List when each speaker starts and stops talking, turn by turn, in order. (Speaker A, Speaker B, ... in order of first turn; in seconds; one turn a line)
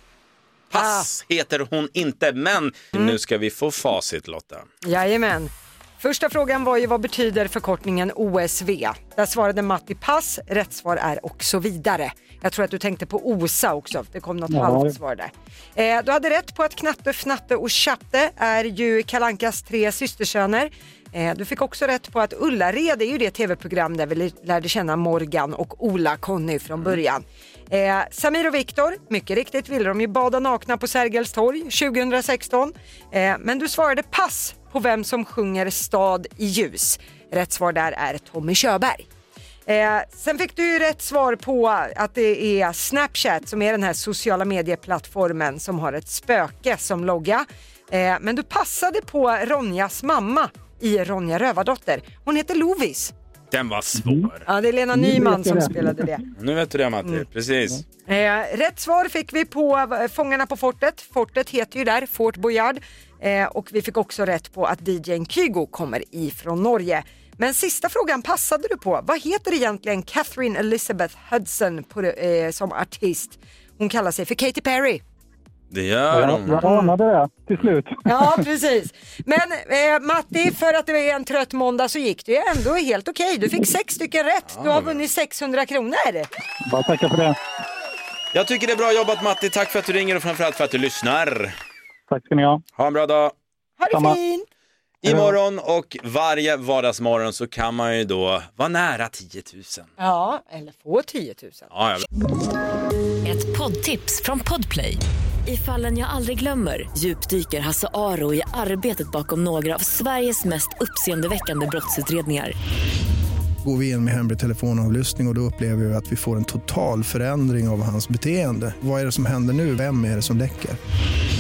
Speaker A: 0.7-4.7
Speaker B: 0.7-1.0
Speaker B: 4.8-39.1
Speaker C: 14.5-14.9
Speaker B: 39.6-53.1
Speaker A: 53.5-54.4
Speaker B: 54.5-56.2
Speaker C: 54.9-56.0
Speaker A: 56.4-57.8
Speaker B: 58.1-75.0
Speaker A: 75.7-76.7
Speaker C: 76.1-78.3
Speaker B: 76.6-76.9
Speaker B: 78.0-86.3
Speaker A: 84.5-84.9
Speaker C: 86.7-87.4
Speaker A: 88.3-91.5
Speaker C: 92.1-92.6
Speaker A: 92.8-93.3
Speaker B: 93.8-94.5
Speaker C: 93.9-94.2
Speaker A: 95.0-99.9
Speaker C: 95.0-95.3
Speaker B: 100.0-101.7
Speaker A: 101.7-102.0
Speaker D: 103.2-112.5
Speaker E: 113.6-120.8